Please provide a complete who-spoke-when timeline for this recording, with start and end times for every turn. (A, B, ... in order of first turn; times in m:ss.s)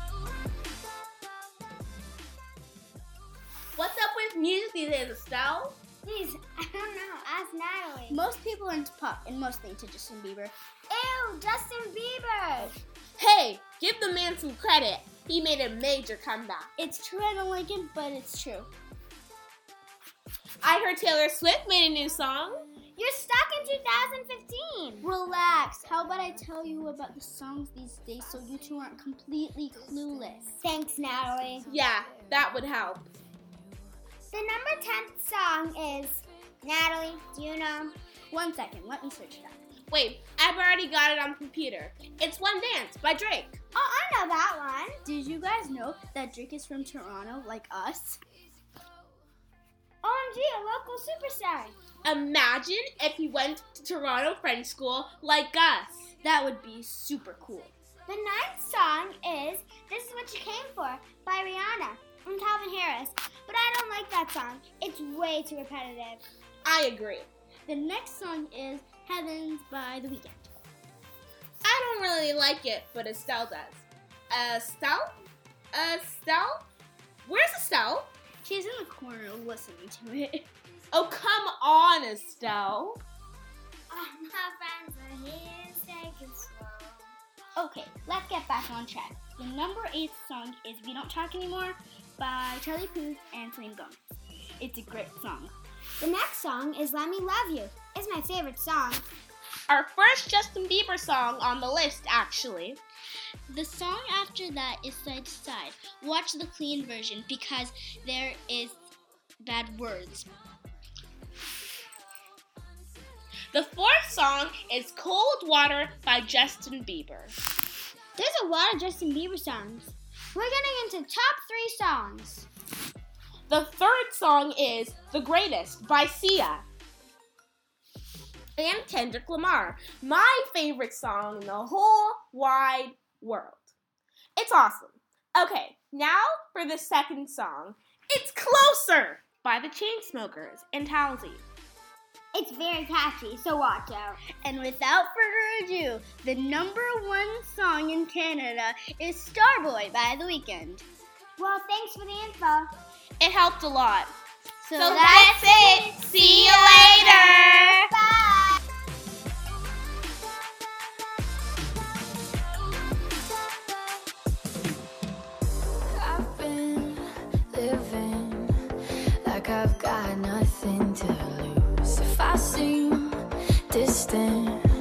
0:03.8-0:05.7 A
0:06.0-0:08.2 B
0:08.1-0:10.5 C
0:10.9-0:12.7 B
0:13.2-0:16.7 A
0:16.8-0:18.7 C
0:20.6-0:22.6 A
0:23.0-0:25.1 B
0:25.0-0:30.6 C
0:30.6-0:31.6 B
0:31.6-0:33.1 A
0:34.3-0:37.9 B
0:38.3-0:39.6 C
0:39.9-0:43.6 A
0:43.7-0:45.0 B
0:45.0-0:48.2 C
0:50.0-0:51.8 B
0:52.0-0:56.0 A
0:56.2-0:57.7 C
0:58.1-1:06.2 B
1:06.6-1:07.3 A
1:07.7-1:10.5 C
1:11.6-1:15.0 A
1:15.7-1:16.6 A
1:17.2-1:18.1 A
1:18.4-1:20.5 C
1:20.9-1:23.0 A
1:23.9-1:27.1 B
1:27.6-1:34.0 C
1:34.6-1:35.5 C
1:36.0-1:39.0 B
1:39.7-1:42.8 A
1:43.5-1:48.8 C
1:49.4-1:50.3 C
1:53.5-1:57.3 A
1:58.2-2:02.5 B
2:03.5-2:06.6 A
2:08.6-2:13.7 A
2:14.4-2:21.4 A
2:22.3-2:24.2 B
2:24.4-2:30.8 C
2:31.4-2:32.7 B
2:33.2-2:34.1 A
2:34.6-2:35.5 C
2:34.8-2:37.8 A
2:35.0-2:38.6 B
2:45.9-2:48.5 D
2:49.2-2:53.1 D
2:53.7-2:54.6 D